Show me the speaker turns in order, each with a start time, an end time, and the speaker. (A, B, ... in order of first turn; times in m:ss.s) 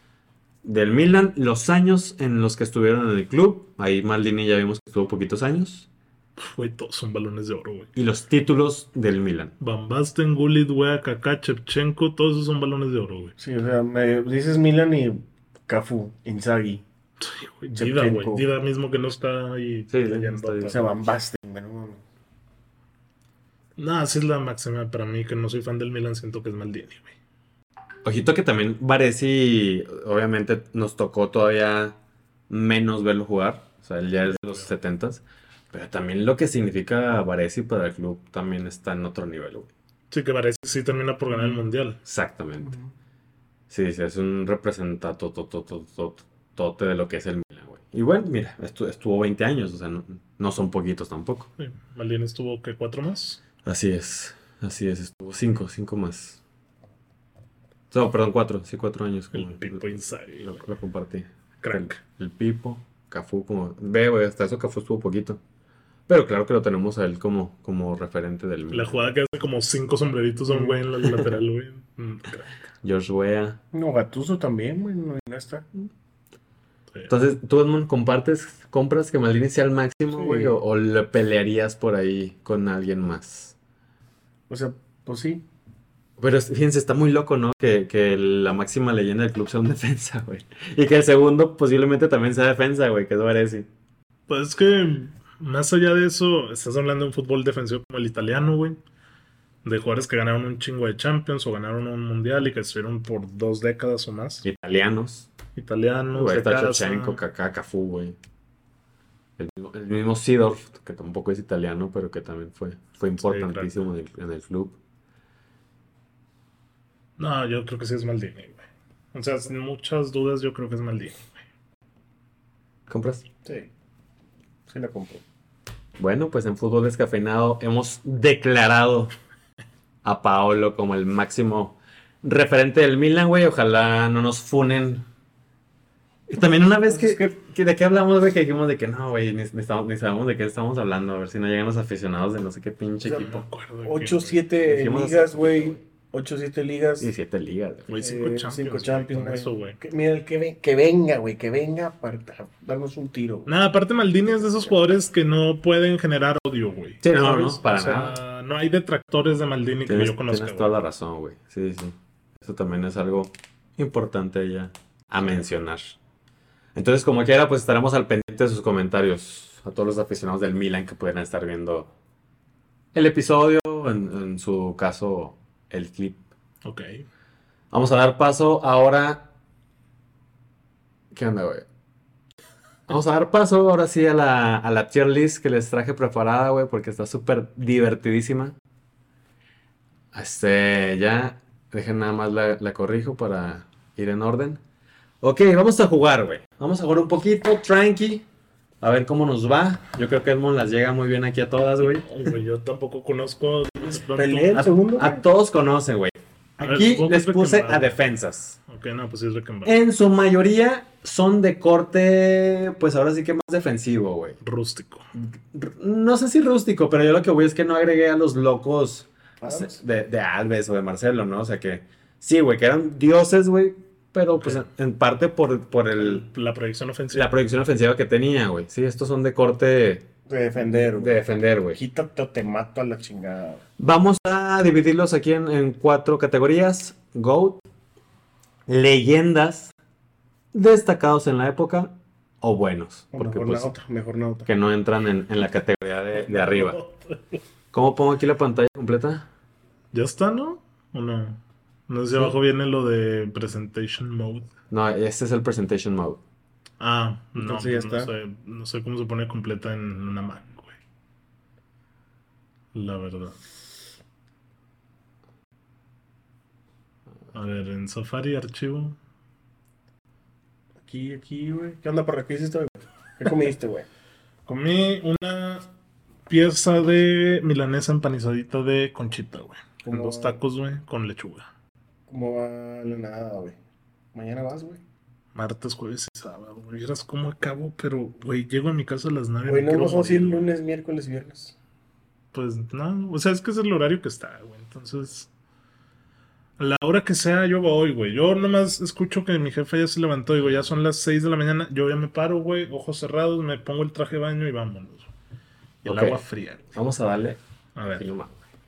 0:00.6-0:05.9 A
0:06.4-0:07.9 B
0:08.0-0:09.5 A
0:09.6-0:13.3 B
0:13.4-0:16.8 C
0:17.2-0:20.9 B
0:17.8-0:18.4 C
0:19.9-0:20.8 A
0:20.6-0:22.0 C
0:23.8-0:27.1 B
0:28.0-0:32.0 A
0:32.5-0:39.7 A
0:34.3-0:34.7 B
0:40.1-0:42.0 B
0:42.0-0:42.8 A
0:42.6-0:42.9 C
0:43.7-0:51.5 A
0:51.6-0:53.4 B
0:53.6-0:56.4 A
0:57.9-0:59.8 A
0:59.3-1:00.6 B
1:00.4-1:05.4 A
1:01.6-1:02.0 B
1:06.1-1:09.0 A
1:08.7-1:12.7 B
1:10.5-1:10.8 C
1:12.8-1:13.6 A
1:13.7-1:15.7 C
1:17.1-1:23.6 A
1:20.1-1:20.6 C
1:24.5-1:25.4 C
1:26.2-1:33.7 A
1:34.3-1:38.8 B
1:39.6-1:44.4 B
1:44.4-1:45.3 A
1:45.6-1:47.2 B
1:46.1-1:48.2 A
1:49.4-1:54.8 A
1:53.2-1:53.7 B
1:57.2-2:01.4 B
2:02.9-2:03.2 A
2:04.7-2:05.2 C
2:06.0-2:09.1 A
2:10.0-2:15.1 A
2:16.3-2:23.4 A
2:16.9-2:17.2 C
2:23.0-2:27.1 C
2:23.1-2:24.4 B
2:24.6-2:25.8 A
2:27.0-2:27.9 A
2:27.9-2:29.8 B
2:28.0-2:33.5 C
2:33.5-2:40.8 B
2:37.0-2:38.2 A
2:39.9-2:45.8 A
2:46.8-2:51.9 A
2:52.9-2:56.2 A
2:56.6-2:57.0 B
2:57.7-2:59.3 A
3:01.1-3:01.7 A
3:02.9-3:08.6 A
3:10.1-3:14.6 A
3:15.2-3:18.2 A
3:18.8-3:22.4 A
3:22.0-3:24.7 B
3:23.8-3:25.2 C
3:24.5-3:28.6 A
3:26.6-3:28.0 B
3:28.7-3:29.7 B
3:29.6-3:34.4 A
3:34.4-3:35.1 B
3:35.2-3:46.2 A
3:39.4-3:39.8 C
3:46.0-3:47.3 B
3:47.1-3:50.1 A
3:50.3-3:51.2 C
3:50.8-3:51.8 A
3:51.7-3:53.6 C
3:53.8-3:57.6 A
3:58.7-3:59.7 A
4:00.5-4:03.7 A
4:03.1-4:04.5 C
4:04.5-4:06.8 A
4:06.2-4:07.2 B
4:07.7-4:09.3 A
4:09.9-4:14.5 B
4:14.7-4:16.2 A
4:16.8-4:20.7 B
4:17.4-4:18.1 C
4:22.7-4:23.4 B
4:27.3-4:29.0 B
4:30.8-4:33.9 C
4:34.5-4:35.7 B
4:36.3-4:41.5 B
4:39.8-4:40.4 C
4:42.1-4:43.6 C
4:44.1-4:44.8 C
4:45.4-4:50.5 B
4:49.5-4:51.6 C
4:52.3-4:55.3 B
4:56.6-5:05.1 B
5:00.4-5:00.7 A
5:05.8-5:06.7 B
5:05.8-5:06.2 A
5:06.7-5:07.4 A
5:07.8-5:08.1 B
5:08.0-5:08.4 A